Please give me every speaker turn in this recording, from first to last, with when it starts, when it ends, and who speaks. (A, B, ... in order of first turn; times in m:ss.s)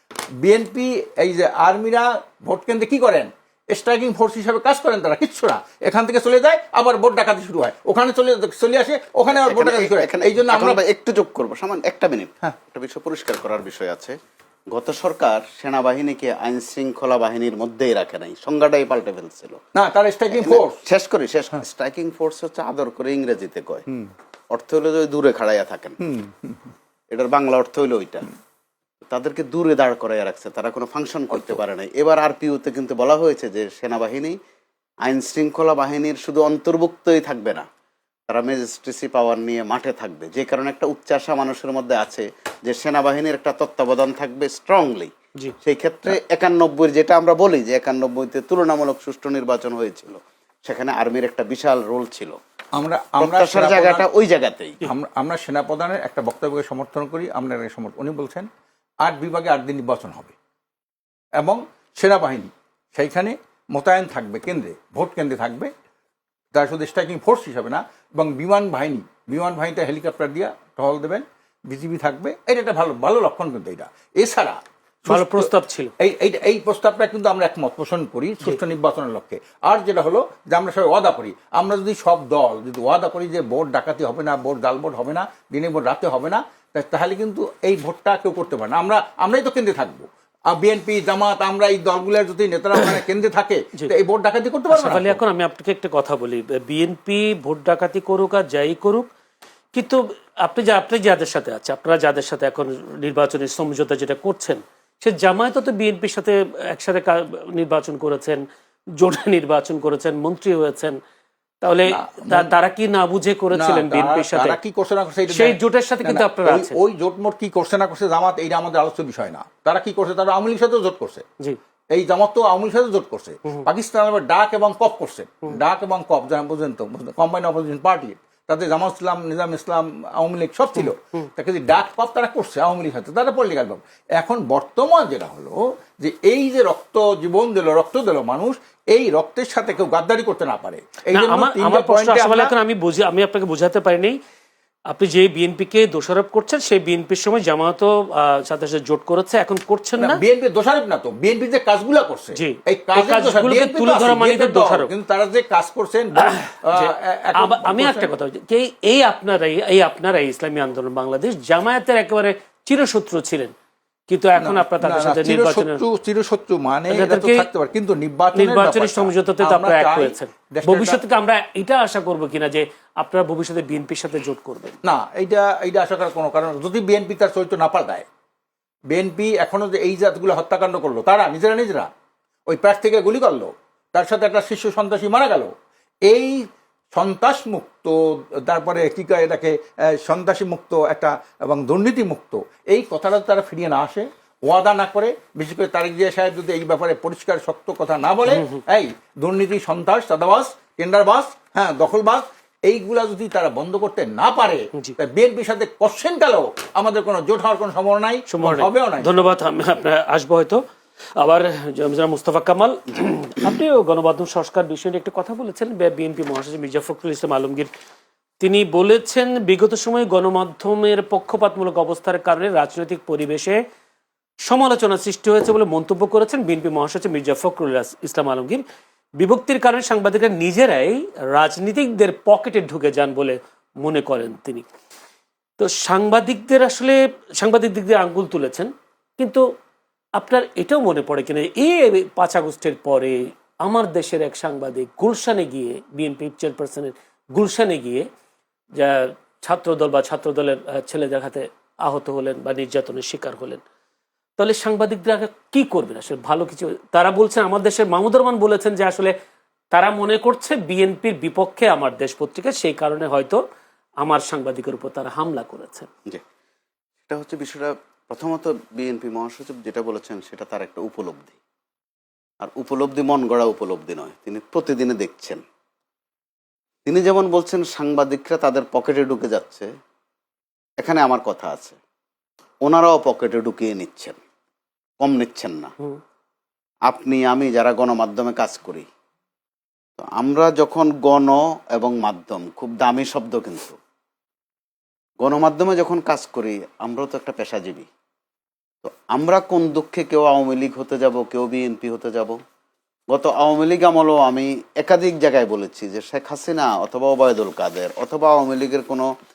0:00.4-0:10.8 A
0:09.4-0:14.2 B
0:14.7-0:19.6 B
0:19.7-0:20.8 A
0:20.3-0:23.8 B
0:24.5-0:26.0 B
0:26.0-0:26.7 A
0:27.1-0:28.3 B
0:29.0-0:34.4 B
0:35.0-0:37.6 B
0:38.3-0:45.1 B
0:45.6-0:52.4 B
0:52.7-0:54.0 A
0:53.2-0:54.8 B
0:54.8-0:58.5 A
0:59.0-1:00.3 A
1:01.4-1:05.7 A
1:06.5-1:35.2 A
1:15.1-1:15.9 C
1:34.7-1:39.1 C
1:39.7-1:48.4 C
1:49.0-1:51.0 C
1:51.6-1:54.6 C
1:51.9-1:52.5 A
1:53.5-2:01.2 A
1:55.3-1:56.8 C
2:01.9-2:22.5 A
2:21.1-2:24.2 C
2:24.9-2:30.2 C
2:30.0-2:38.1 A
2:32.3-2:34.9 C
2:36.2-2:43.5 C
2:44.1-2:45.8 C
2:44.4-2:51.0 A
2:46.9-2:47.5 C
2:48.3-2:54.8 C
2:54.8-2:58.0 A
2:58.9-3:01.9 A
3:02.5-3:05.5 A
3:06.0-3:29.3 A
3:18.3-3:18.6 C
3:28.3-3:30.6 C
3:31.2-3:37.7 C
3:38.4-3:43.6 C
3:44.4-3:48.6 C
3:49.2-3:54.7 C
3:55.6-3:59.4 C
4:00.2-4:08.1 C
4:08.8-4:13.6 C
4:14.4-4:19.1 C
4:19.7-4:23.4 C
4:24.0-4:25.9 C
4:27.0-4:31.4 B
4:32.4-4:35.4 B
4:36.8-4:39.7 B
4:40.8-4:41.8 B
4:42.6-4:44.2 B
4:45.0-4:45.7 B
4:46.9-4:48.8 B
4:50.0-4:53.8 B
4:55.2-4:57.9 B
4:58.8-5:02.4 B
5:03.1-5:09.1 B